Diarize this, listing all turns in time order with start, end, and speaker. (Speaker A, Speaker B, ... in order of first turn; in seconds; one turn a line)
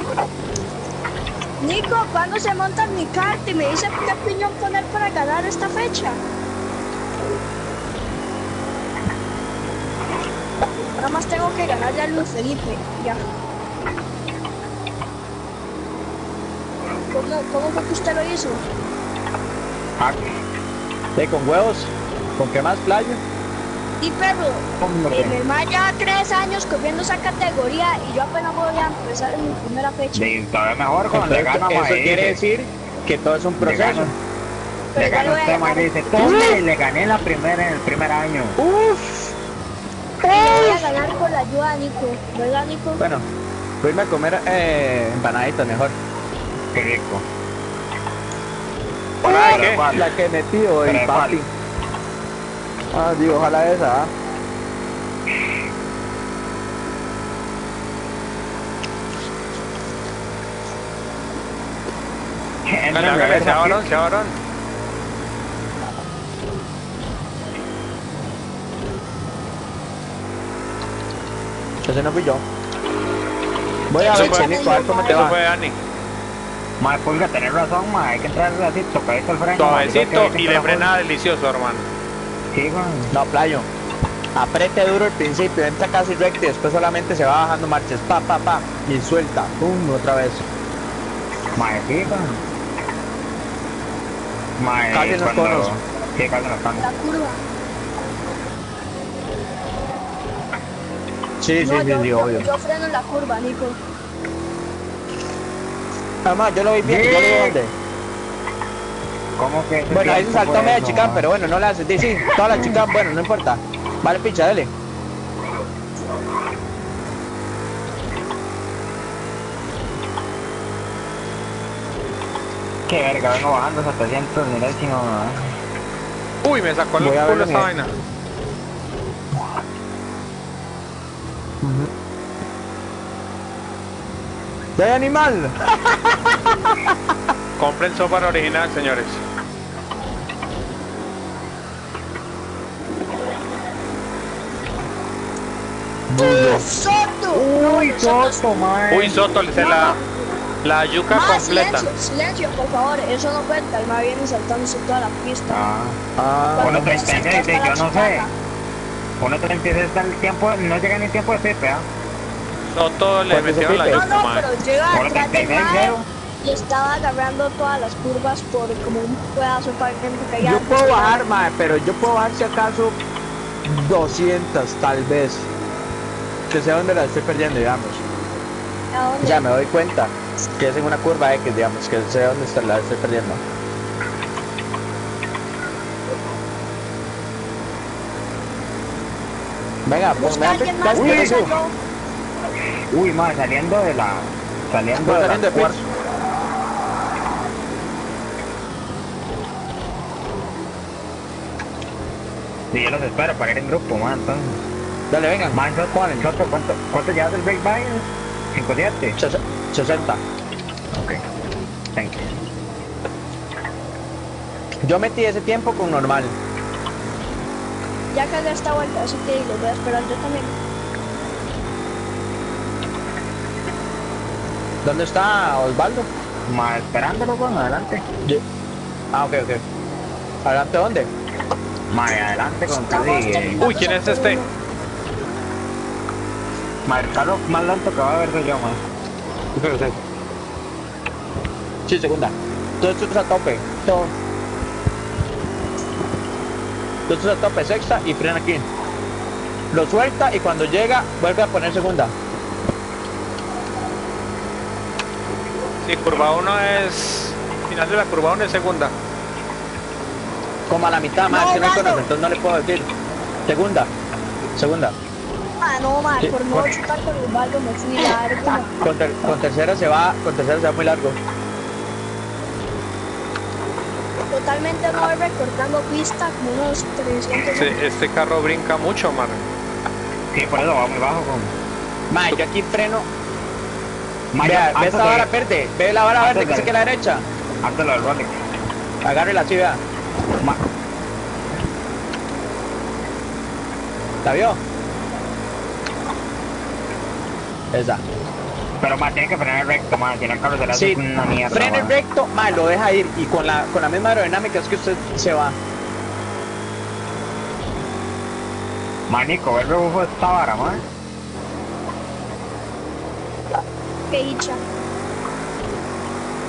Speaker A: 1.6-6.2
Speaker A: 11.0-13.2
Speaker A: 17.1-18.6
Speaker B: 21.2-23.2
Speaker A: 24.0-30.3
Speaker C: 24.8-25.4
Speaker C: 30.1-32.4
Speaker B: 31.1-34.1
Speaker C: 33.6-34.1
Speaker A: 34.9-36.6
Speaker C: 35.0-38.6
Speaker B: 36.2-36.6
Speaker B: 38.6-39.3
Speaker B: 40.2-40.9
Speaker A: 40.3-43.0
Speaker B: 43.0-43.3
Speaker B: 43.8-46.0
Speaker C: 46.7-47.2
Speaker D: 49.2-49.9
Speaker B: 49.2-51.5
Speaker C: 49.3-50.1
Speaker C: 50.8-51.4
Speaker B: 52.9-54.1
Speaker C: 62.7-63.8
Speaker D: 62.9-64.3
Speaker B: 71.8-72.4
Speaker B: 73.9-75.4
Speaker A: 74.0-75.3
Speaker D: 74.1-75.8
Speaker C: 76.8-80.9
Speaker D: 79.6-81.9
Speaker C: 82.5-83.1
Speaker B: 83.1-83.7
Speaker B: 84.4-90.4
Speaker C: 91.6-92.4
Speaker C: 94.6-96.9
Speaker B: 94.9-95.7
Speaker A: 96.8-97.4
Speaker B: 101.4-102.5
Speaker A: 101.6-103.8
Speaker B: 106.2-107.7
Speaker C: 106.8-107.6
Speaker C: 109.4-111.2
Speaker B: 109.9-114.7
Speaker C: 112.1-112.8
Speaker C: 122.9-125.4
Speaker D: 126.4-127.9
Speaker B: 127.0-127.7
Speaker B: 131.6-131.9
Speaker B: 134.8-136.6
Speaker D: 137.6-139.2
Speaker B: 146.1-146.6
Speaker A: 146.2-148.5
Speaker C: 147.3-149.4
Speaker D: 148.9-150.0
Speaker A: 149.6-150.0
Speaker D: 150.6-151.9
Speaker A: 151.1-155.6
Speaker C: 155.5-156.0
Speaker B: 156.2-156.9
Speaker A: 156.5-158.3
Speaker C: 156.6-158.3
Speaker C: 159.2-161.9
Speaker D: 162.7-164.5
Speaker B: 163.3-164.1
Speaker A: 163.9-171.2
Speaker C: 164.9-166.1
Speaker B: 170.4-173.0
Speaker B: 173.7-175.5
Speaker B: 176.5-178.0
Speaker A: 178.9-179.5
Speaker B: 179.2-183.4
Speaker B: 189.9-191.5
Speaker A: 190.2-191.7
Speaker C: 190.9-191.4
Speaker C: 192.9-195.8
Speaker B: 195.0-195.9
Speaker C: 202.7-204.6
Speaker B: 205.1-206.3
Speaker C: 205.5-209.2
Speaker B: 209.2-210.2
Speaker B: 214.8-216.3
Speaker A: 218.1-220.6
Speaker B: 224.8-226.1
Speaker C: 226.5-228.0
Speaker B: 229.1-229.6
Speaker B: 230.4-231.1
Speaker C: 231.9-233.6
Speaker A: 232.9-234.5
Speaker D: 233.6-234.4
Speaker C: 236.9-238.8
Speaker B: 239.6-239.8
Speaker B: 241.9-244.1
Speaker B: 247.1-248.7
Speaker B: 249.7-252.1
Speaker D: 255.8-258.9
Speaker B: 260.7-262.9
Speaker A: 261.3-262.1
Speaker B: 263.5-263.9
Speaker B: 264.6-264.9
Speaker A: 265.6-268.7
Speaker B: 266.2-266.8
Speaker B: 268.8-271.2
Speaker A: 274.3-277.8
Speaker D: 277.6-279.5
Speaker C: 280.3-281.5
Speaker B: 282.1-283.1
Speaker C: 284.3-285.3
Speaker B: 284.4-287.2
Speaker C: 286.2-286.7
Speaker C: 287.6-288.3
Speaker B: 289.0-289.8
Speaker B: 294.2-294.6
Speaker B: 297.7-298.0
Speaker C: 298.8-301.9
Speaker B: 300.7-305.6
Speaker C: 309.1-310.8
Speaker A: 314.1-314.6